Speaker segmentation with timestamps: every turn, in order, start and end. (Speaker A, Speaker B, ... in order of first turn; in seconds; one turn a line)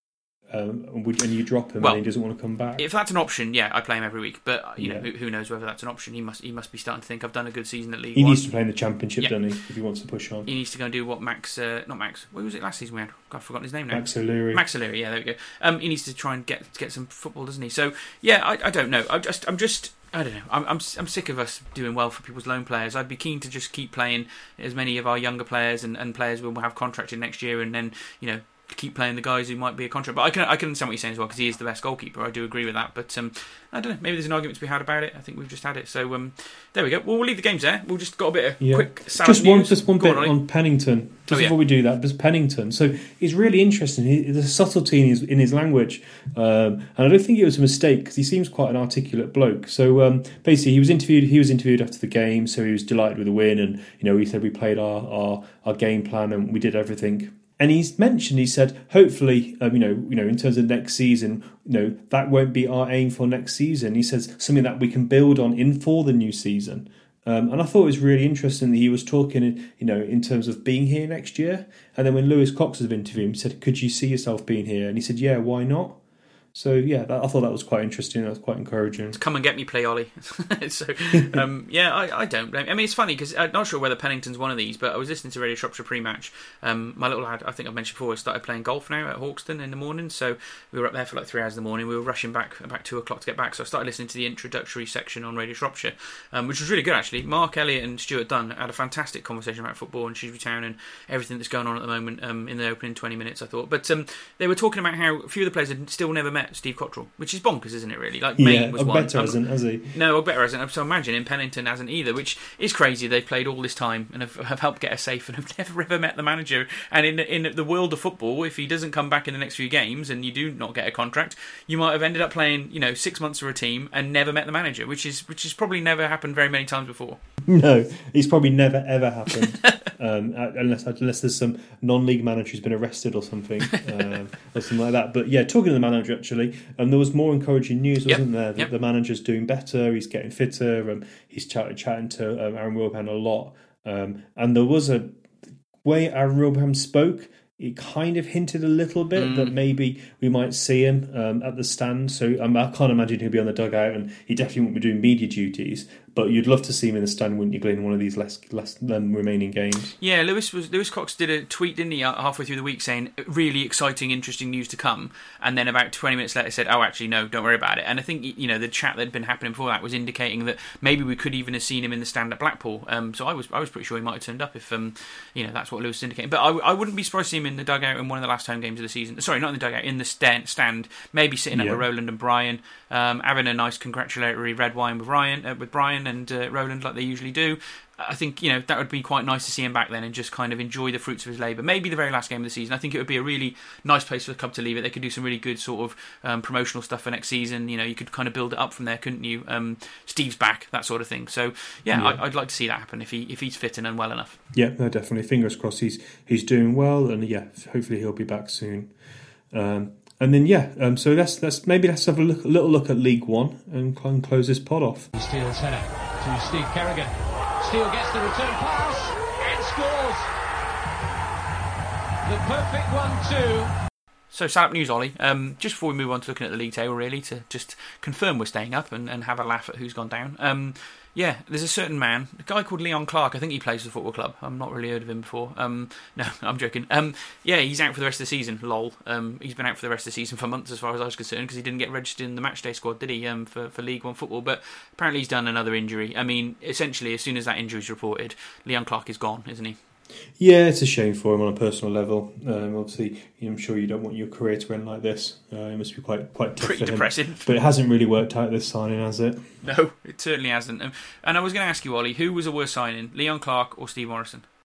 Speaker A: 0.5-2.8
Speaker B: 2.8-8.4
Speaker A: 4.8-5.1
Speaker A: 8.1-10.5
Speaker B: 10.4-40.4
Speaker A: 13.9-14.6
Speaker A: 38.6-76.0
Speaker B: 41.3-41.5
Speaker A: 76.5-79.2
Speaker B: 79.1-127.2
Speaker A: 81.1-81.4
Speaker A: 108.4-109.9
Speaker A: 127.5-145.1
Speaker B: 129.4-129.9
Speaker B: 138.1-138.7
Speaker A: 145.8-159.9
Speaker B: 149.2-149.5
Speaker B: 160.0-204.4
Speaker A: 181.5-181.8
Speaker A: 201.9-202.2
Speaker A: 204.5-208.9
Speaker A: 209.5-215.1
Speaker C: 215.2-220.3
Speaker C: 222.2-223.7
Speaker B: 224.3-249.8
Speaker A: 250.4-259.4
Speaker B: 256.6-257.6
Speaker B: 259.6-264.4